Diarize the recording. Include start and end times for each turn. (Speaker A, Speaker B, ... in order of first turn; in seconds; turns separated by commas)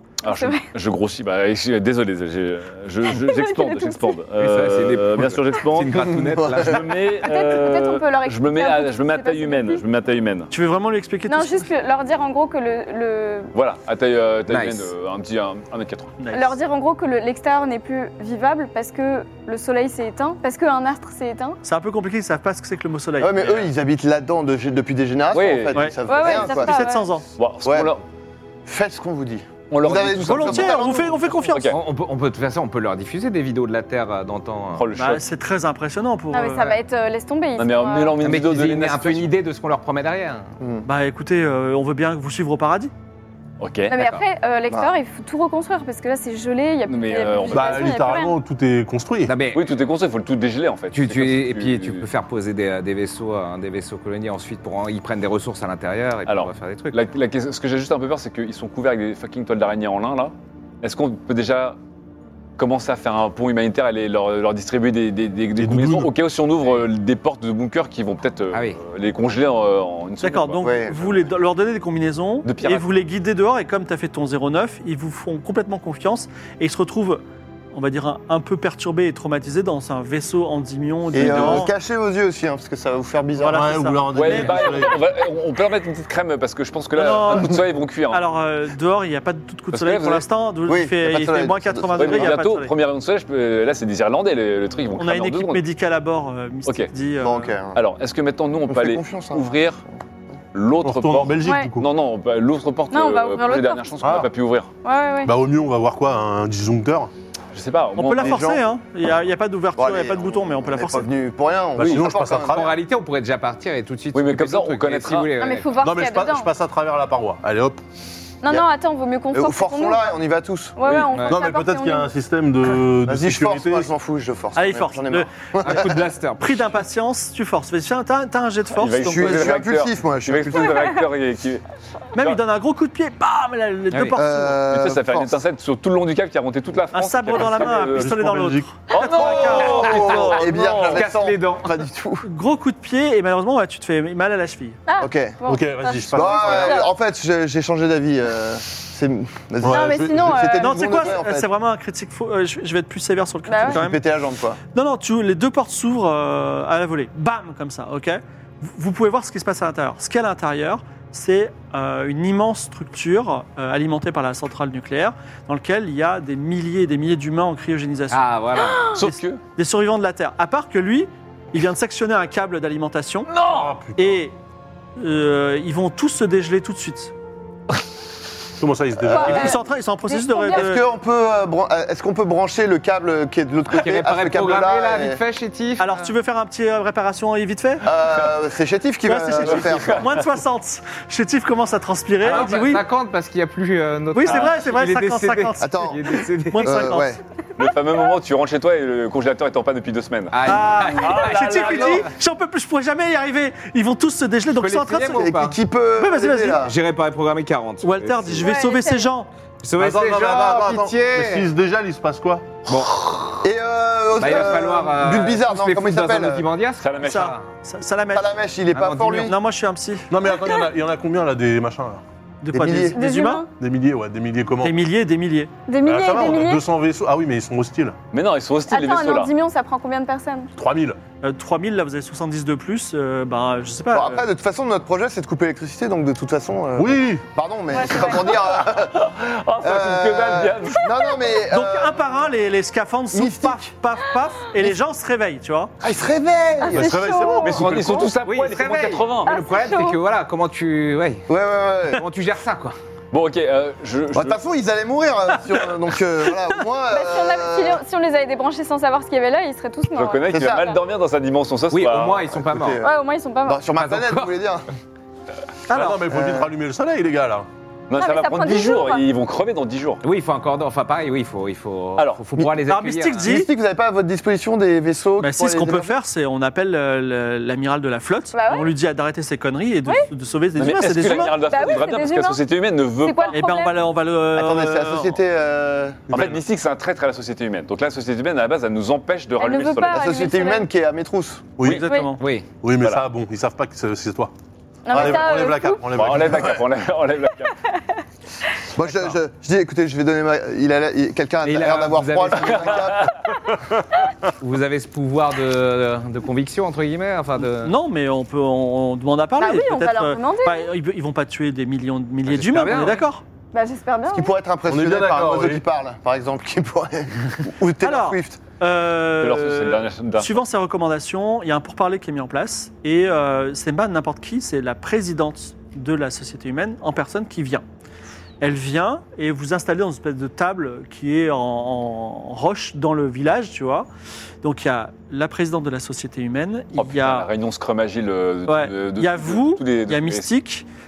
Speaker A: 0.2-10.5, Speaker B: 0.2-0.6, Speaker B: 3.1-4.2, Speaker C: 4.3-7.1, Speaker D: 5.9-6.7, Speaker B: 7.2-9.8, Speaker E: 10.5-11.7, Speaker B: 11.3-13.5, Speaker A: 13.5-16.1, Speaker C: 14.5-14.9, Speaker E: 16.2-16.5, Speaker B: 16.3-21.6, Speaker E: 21.6-23.7, Speaker D: 23.2-26.8, Speaker A: 25.3-25.9, Speaker E: 25.7-27.2, Speaker B: 26.0-27.1, Speaker A: 27.4-28.0, Speaker D: 27.6-27.9, Speaker D: 28.6-31.2, Speaker A: 29.7-30.9, Speaker E: 30.2-31.7, Speaker A: 31.5-31.8, Speaker C: 31.7-34.9, Speaker A: 34.8-35.2, Speaker E: 34.9-36.7, Speaker B: 36.3-38.2, Speaker A: 37.5-39.3, Speaker C: 38.1-40.5, Speaker D: 40.6-40.9, Speaker E: 40.8-42.9, Speaker A: 43.6-44.0, Speaker B: 43.9-48.4, Speaker C: 43.9-44.2, Speaker A: 46.9-48.0, Speaker F: 47.5-49.3, Speaker C: 49.2-49.8, Speaker A: 49.5-52.0, Speaker C: 50.9-57.0, Speaker A: 56.3-61.8, Speaker A: 62.6-71.1, Speaker F: 65.6-66.1, Speaker C: 68.5-68.8, Speaker E: 70.2-77.2, Speaker D: 70.6-71.0, Speaker A: 72.4-72.9, Speaker E: 77.7-81.7, Speaker D: 81.1-84.8, Speaker A: 81.2-81.7, Speaker E: 83.4-84.5, Speaker F: 83.5-85.0, Speaker A: 84.2-88.2, Speaker E: 86.9-92.7, Speaker A: 89.7-90.2, Speaker D: 90.7-92.4, Speaker A: 92.0-95.6, Speaker E: 94.9-97.6, Speaker D: 97.2-97.8, Speaker A: 97.7-99.8, Speaker D: 98.7-99.5, Speaker A: 100.5-104.7, Speaker F: 100.8-101.9, Speaker B: 101.4-101.7, Speaker B: 102.9-103.9, Speaker F: 104.0-104.3, Speaker B: 104.8-105.3, Speaker F: 105.2-107.1, Speaker A: 107.5-108.5, Speaker E: 107.9-111.1, Speaker D: 108.2-108.6, Speaker D: 109.8-112.7, Speaker F: 111.8-112.7, Speaker A: 111.8-112.0, Speaker C: 112.5-115.7, Speaker A: 114.1-115.3, Speaker B: 115.3-116.5, Speaker F: 115.8-117.8, Speaker B: 118.4-120.1, Speaker D: 119.3-120.8, Speaker B: 120.8-122.1, Speaker A: 120.8-121.1, Speaker C: 121.1-121.4, Speaker F: 121.2-123.9, Speaker D: 123.0-126.0, Speaker E: 124.5-125.7, Speaker C: 125.6-126.8, Speaker E: 126.4-129.6, Speaker A: 128.8-131.6, Speaker D: 129.0-131.0, Speaker E: 132.1-134.6, Speaker C: 133.9-134.2, Speaker D: 134.2-135.3, Speaker A: 134.7-138.1, Speaker E: 136.9-140.3, Speaker F: 137.4-138.7, Speaker A: 138.9-141.1, Speaker C: 139.1-141.8, Speaker D: 139.3-142.2, Speaker E: 142.2-144.8, Speaker B: 144.9-146.9, Speaker D: 145.0-145.4, Speaker F: 145.4-146.8, Speaker D: 146.1-151.5, Speaker F: 149.6-150.4, Speaker B: 149.7-150.9, Speaker E: 150.6-154.0, Speaker B: 153.5-153.8, Speaker D: 153.7-154.6, Speaker E: 154.7-168.3, Speaker C: 168.1-168.9, Speaker B: 168.6-168.9, Speaker A: 168.8-169.4, Speaker E: 168.9-173.3, Speaker A: 173.3-173.7, Speaker F: 173.5-174.2, Speaker E: 174.0-174.3, Speaker E: 175.0-177.1, Speaker F: 178.6-179.6, Speaker B: 179.0-180.7, Speaker E: 179.2-180.8, Speaker D: 180.5-185.2, Speaker C: 183.7-185.9, Speaker E: 185.8-187.8, Speaker D: 187.8-190.1, Speaker E: 189.0-192.8, Speaker A: 189.4-190.1, Speaker C: 192.2-196.9, Speaker E: 194.1-197.2, Speaker D: 195.6-197.2, Speaker A: 197.6-202.1, Speaker C: 200.3-202.1, Speaker E: 200.4-205.2, Speaker C: 204.5-205.6, Speaker D: 205.1-206.8, Speaker E: 206.0-206.6, Speaker C: 206.6-208.5, Speaker E: 207.8-209.3, Speaker B: 208.4-209.1, Speaker C: 209.6-211.5, Speaker F: 209.8-212.6, Speaker C: 212.6-213.4, Speaker D: 213.4-216.4, Speaker C: 214.2-217.4, Speaker A: 216.8-217.3, Speaker E: 217.0-218.4, Speaker D: 218.1-219.3, Speaker C: 218.7-219.3, Speaker E: 219.1-220.1, Speaker F: 220.1-222.0, Speaker E: 222.4-223.4, Speaker D: 222.5-223.0, Speaker B: 222.9-223.5, Speaker F: 223.6-224.8, Speaker E: 224.6-225.5, Speaker B: 225.7-226.6, Speaker F: 225.8-227.9, Speaker A: 228.1-229.3, Speaker B: 228.7-230.5, Speaker F: 230.6-231.0, Speaker E: 231.2-234.3, Speaker D: 233.9-239.1, Speaker F: 236.8-237.2, Speaker B: 237.7-238.4, Speaker A: 238.6-241.2, Speaker D: 239.6-242.1, Speaker E: 241.5-245.7, Speaker D: 243.1-243.6, Speaker D: 245.8-246.9, Speaker B: 246.6-247.6, Speaker F: 246.7-248.1, Speaker A: 247.4-249.3, Speaker C: 247.9-251.3, Speaker B: 249.2-250.0, Speaker D: 251.3-252.0, Speaker C: 251.9-252.8, Speaker A: 253.1-254.4, Speaker D: 254.1-257.8, Speaker B: 256.9-260.2, Speaker A: 259.9-262.3, Speaker D: 260.3-260.8, Speaker C: 261.7-262.8, Speaker D: 262.3-262.9, Speaker B: 262.8-263.7, Speaker D: 263.4-264.6, Speaker C: 263.7-264.4, Speaker E: 265.7-266.0, Speaker F: 265.7-267.5, Speaker D: 266.1-266.5, Speaker A: 267.9-270.0, Speaker B: 268.0-269.0, Speaker C: 270.0-273.3, Speaker A: 272.0-272.2, Speaker E: 272.6-273.5, Speaker D: 273.2-275.9, Speaker E: 275.2-281.4, Speaker B: 278.3-278.7, Speaker A: 280.6-283.4, Speaker B: 281.0-282.4, Speaker B: 283.0-283.8, Speaker E: 283.3-285.2, Speaker D: 284.3-286.1, Speaker F: 286.1-286.4, Speaker A: 286.1-290.1, Speaker B: 289.4-290.7, Speaker D: 289.9-291.5, Speaker F: 291.6-291.9, Speaker E: 291.6-292.2, Speaker B: 291.9-292.1, Speaker C: 292.2-292.5, Speaker F: 292.5-294.3, Speaker B: 294.8-295.8, Speaker D: 294.9-295.3, Speaker F: 294.9-296.6, Speaker A: 295.9-297.6, Speaker D: 298.7-303.5, Speaker C: 301.4-302.9, Speaker A: 302.4-303.1, Speaker C: 304.4-307.7, Speaker E: 307.4-313.2, Speaker B: 309.4-310.7, Speaker C: 312.2-313.1, Speaker B: 313.5-314.3, Speaker D: 314.1-318.4, Speaker F: 314.7-315.6, Speaker E: 317.8-327.6, Speaker A: 319.2-320.4, Speaker E: 328.4-333.9, Speaker E: 334.4-337.3, Speaker A: 336.8-340.3, Speaker E: 338.5-340.6